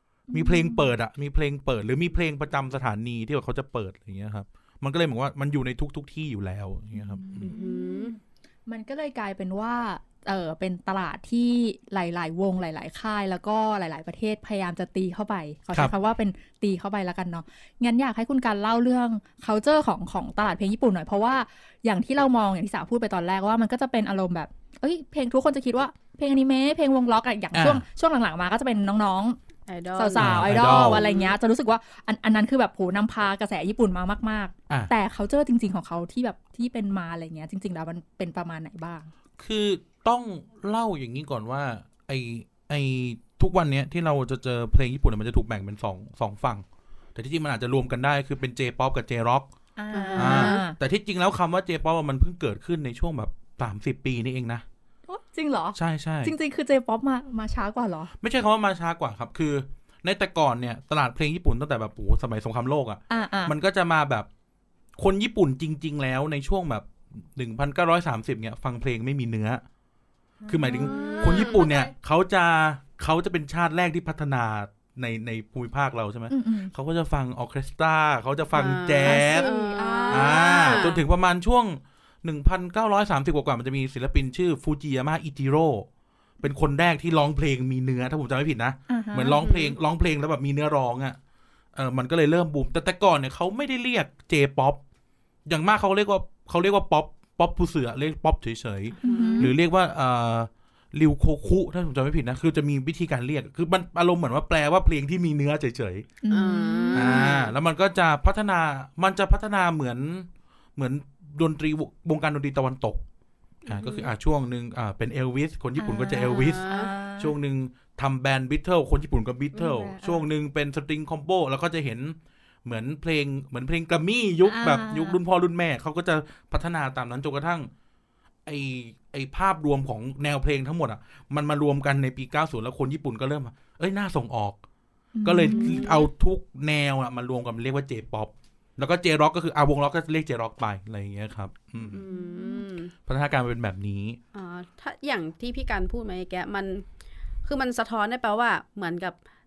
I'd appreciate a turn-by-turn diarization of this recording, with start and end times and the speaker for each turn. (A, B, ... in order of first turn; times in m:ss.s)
0:00.3-0:00.9 A
0:00.3-0:07.5 B
0:06.9-0:29.4 A
0:07.4-0:08.1 C
0:27.5-0:27.8 B
0:29.7-0:31.3 C
0:29.9-0:39.1 A
0:30.2-0:31.0 B
0:39.4-0:46.6 B
0:47.1-0:49.5 B
0:49.8-0:50.8 A
0:49.9-0:50.6 C
0:50.1-0:54.6 B
0:55.1-0:58.1 A
0:55.7-0:56.3 B
0:58.2-1:04.3 B
1:03.1-1:03.5 A
1:05.0-1:09.6 B
1:10.4-1:11.9 A
1:10.5-1:19.5 B
1:10.7-1:11.6 C
1:16.3-1:16.7 A
1:18.5-1:21.0 C
1:19.0-1:20.9 A
1:20.1-1:25.9 B
1:26.4-1:31.2 B
1:28.9-1:29.5 A
1:29.4-1:29.7 C
1:31.7-1:34.8 B
1:35.4-1:46.1 B
1:39.0-1:39.5 A
1:39.0-1:39.5 C
1:46.2-1:47.3 A
1:46.3-1:47.5 C
1:46.9-1:53.0 B
1:53.7-1:54.1 C
1:53.7-1:56.6 B
1:55.8-1:57.3 A
1:56.2-1:56.9 C
1:57.2-2:07.7 B
1:59.5-2:00.2 A
2:04.4-2:05.2 A
2:08.4-2:14.6 B
2:15.1-2:16.0 A
2:15.2-2:22.0 B
2:15.5-2:16.0 C
2:21.9-2:22.9 C
2:21.9-2:22.6 A
2:23.0-2:24.2 B
2:24.3-2:26.8 C
2:27.4-2:29.2 C